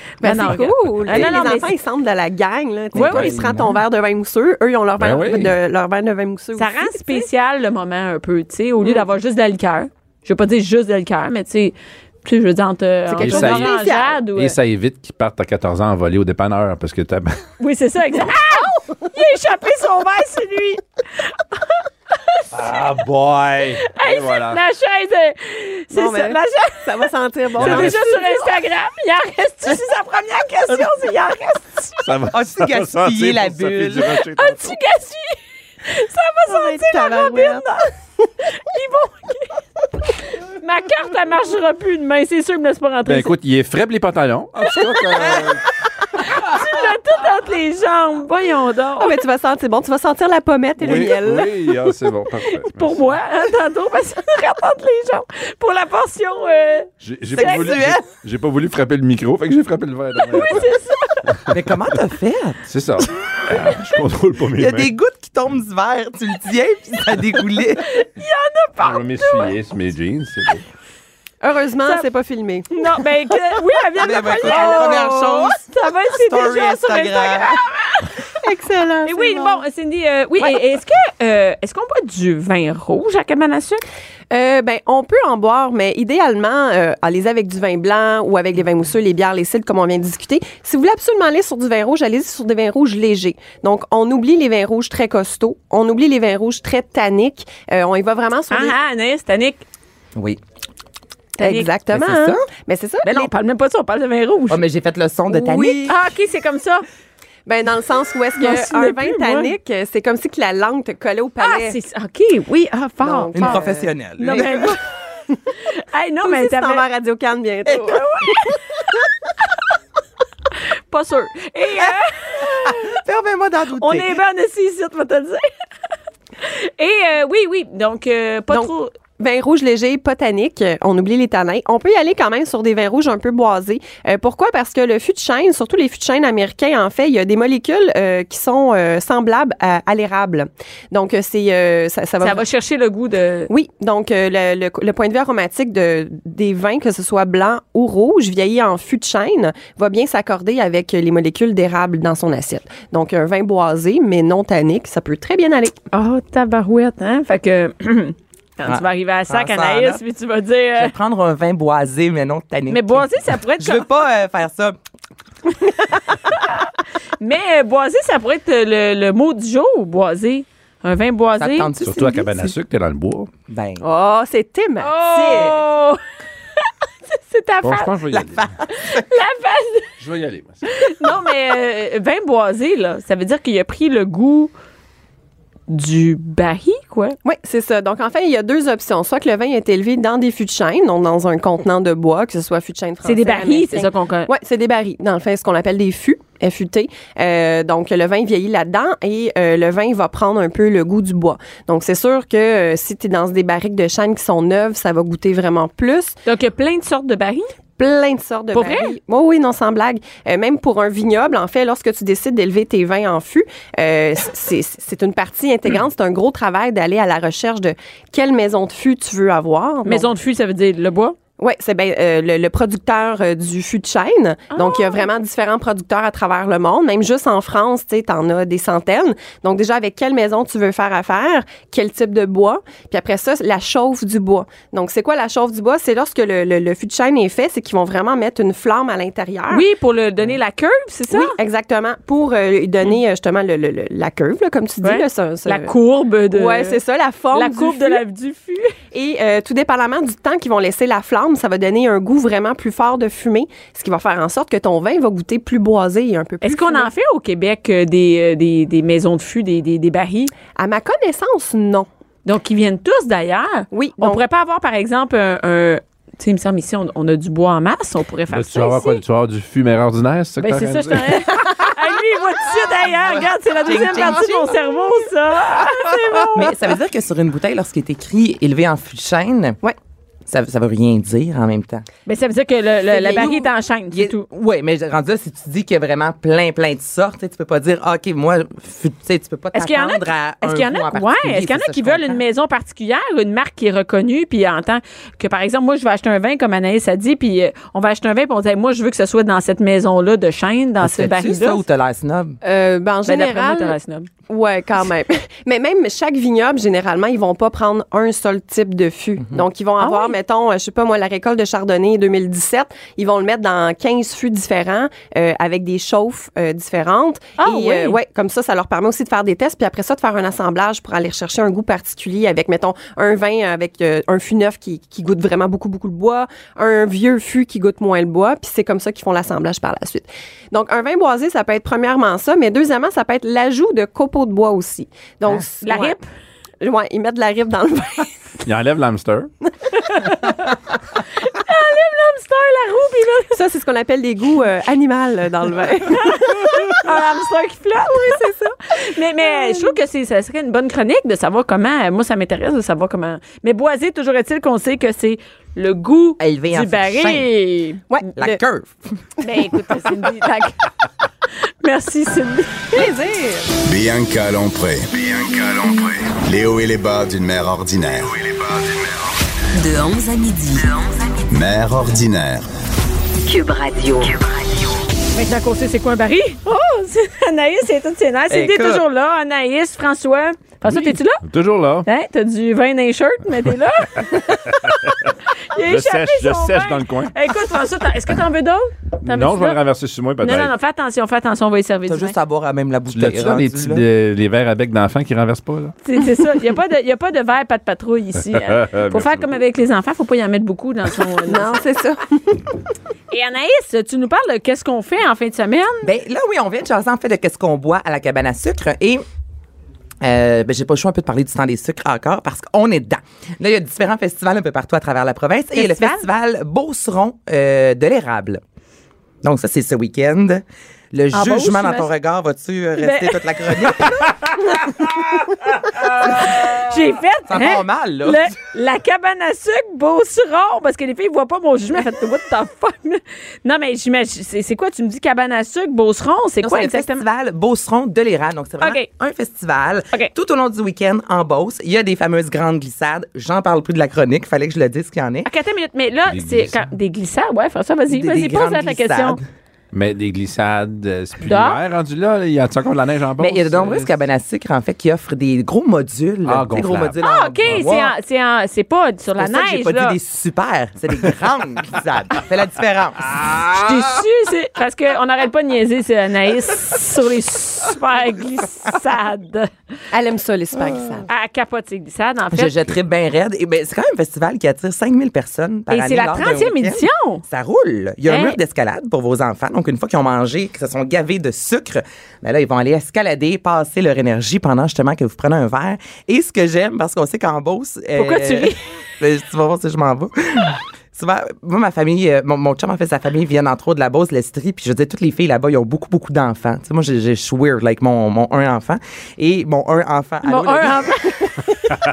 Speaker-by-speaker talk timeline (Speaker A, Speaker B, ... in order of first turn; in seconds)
Speaker A: 0.2-1.7, 2.9-3.4, 6.6-14.6, 17.6-22.4, 23.8-32.0, 34.3-37.9, 38.4-43.3, 46.1-49.1, 52.4-57.8, 60.2-61.2, 67.9-69.5, 72.7-78.2, 79.0-83.8, 98.5-99.6, 101.4-101.7, 103.0-104.6, 105.8-106.8, 108.4-109.5, 111.4-113.6, 114.2-114.8, 115.5-116.8, 117.7-118.9, 120.6-123.0, 123.8-125.5, 126.4-128.9, 142.2-143.5, 155.9-160.9, 162.7-163.9, 166.3-171.8, 174.8-176.0, 176.6-177.9, 178.8-179.9, 180.6-184.5, 185.7-187.2, 193.0-194.3, 206.2-207.5, 208.5-208.9, 219.8-221.2, 224.5-225.0, 239.5-241.3, 244.8-246.8, 247.3-248.8, 256.4-260.3, 262.2-269.0, 270.4-276.5, 282.1-284.2, 289.5-301.6, 303.1-304.1, 309.8-310.1, 317.4-318.0, 335.6-336.1, 339.7-340.3, 341.1-343.3, 346.0-357.8, 359.2-360.6, 361.6-362.8, 375.1-381.2, 381.8-384.8, 385.5-389.6, 390.2-392.1, 395.8-401.5, 403.1-405.9, 415.6-416.0, 421.1-421.9, 422.8-425.0, 425.8-437.0, 438.6-438.9, 445.2-449.2, 451.2-451.6, 457.0-459.9, 463.5-469.5, 471.1-472.7, 475.7-477.2, 478.1-478.4, 487.9-488.6, 500.2-501.5
Speaker B: 0.2-7.2, 13.1-14.2, 18.6-18.9, 25.9-28.5, 36.5-37.7, 49.0-51.5, 71.4-73.6, 74.4-75.0, 78.4-79.6, 84.3-98.8, 101.4-103.3, 105.3-105.9, 107.5-111.8, 113.0-114.7, 116.2-118.3, 128.5-142.4, 143.5-155.8, 173.8-175.6, 187.2-206.2, 207.8-220.1, 221.4-239.7, 241.1-245.7, 246.3-248.0, 248.9-256.9, 260.5-261.9, 263.7-264.2, 275.9-276.4, 302.4-303.8, 304.3-336.0, 336.6-338.3, 343.3-346.7, 347.8-348.6, 349.2-349.8, 357.9-358.4, 362.7-363.6, 401.2-402.5, 469.9-471.1
Speaker C: 2.9-3.8, 32.3-34.2, 57.3-58.0, 61.5-62.6, 64.5-67.9, 74.0-77.6, 101.9-102.4, 104.5-106.0, 113.3-114.7, 121.8-124.2, 158.7-160.0, 160.8-164.8, 171.4-172.3, 173.5-173.8, 178.1-179.0, 273.6-274.5, 276.3-279.6, 280.3-281.9, 282.9-292.2, 300.8-302.4, 356.2-357.3, 358.2-358.9, 378.3-378.8, 391.9-393.8, 405.8-409.0, 410.0-418.4, 419.2-424.1, 427.3-428.3, 436.4-445.3, 447.9-449.2, 453.2-457.9, 459.2-463.1, 472.3-501.1
Speaker D: 5.0-5.5, 13.1-17.4, 22.5-24.6, 27.6-28.0, 32.0-34.8, 43.0-45.6, 50.8-53.2, 57.0-60.7, 61.3-61.6, 62.7-64.9, 68.8-70.6, 171.8-173.3, 177.6-178.5, 180.0-180.6, 268.3-271.2, 338.4-339.3, 380.6-381.9, 384.1-387.1, 389.0-390.5, 392.9-395.7, 398.2-399.3, 446.1-446.6, 449.7-453.9, 456.2-457.7, 463.1-463.8
Speaker E: 363.6-369.1, 371.3-372.5
Speaker F: 369.5-371.2, 373.2-374.7